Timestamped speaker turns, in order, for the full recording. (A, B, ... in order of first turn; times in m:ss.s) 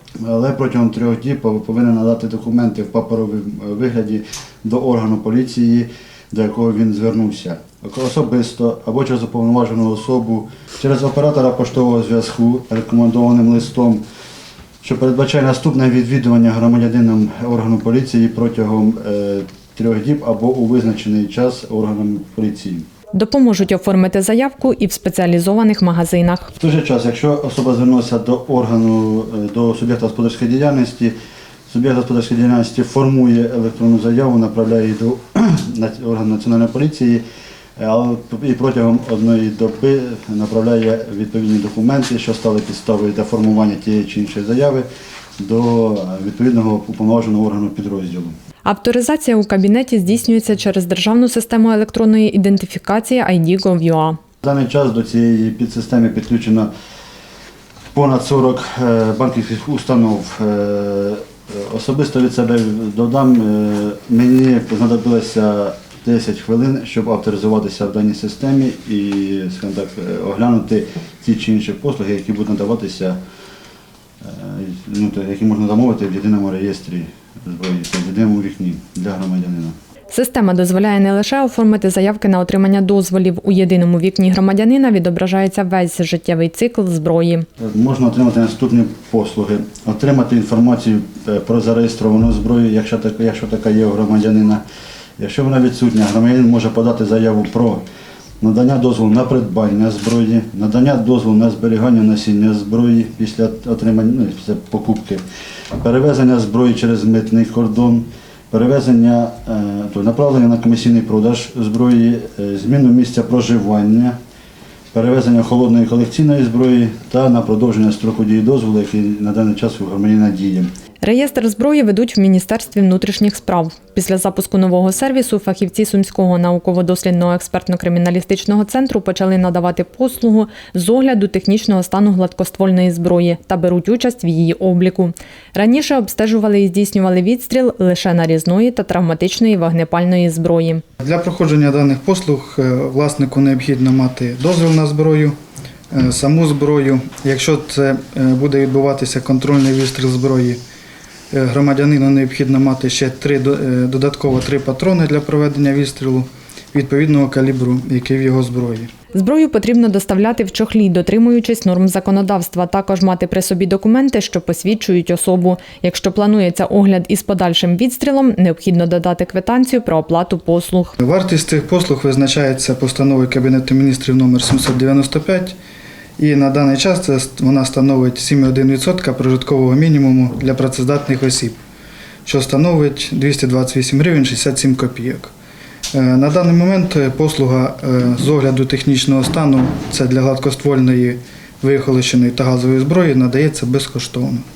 0:00.2-0:14.0 A
0:14.8-0:22.9 A
0:23.1-0:26.5 B
0:26.6-0:31.1 A
0:31.7-0:37.2 A
0:37.8-0:44.9 A
0:45.4-0:48.3 A
0:48.7-0:54.2 B
0:54.4-0:56.7 A
0:57.9-1:13.2 A
1:14.2-1:19.8 A
1:20.1-1:27.4 B
1:27.6-1:34.6 A
1:35.2-1:37.8 A
1:38.4-1:45.2 A
1:45.8-1:54.2 A
1:54.9-2:00.7 A
2:01.0-2:20.8 B
2:21.0-2:25.4 C
2:25.9-2:30.6 C
2:31.3-2:38.9 C
2:39.1-2:51.0 B
2:51.0-2:55.6 C
2:56.2-3:01.6 C
3:02.2-3:05.3 C
3:05.9-3:14.4 C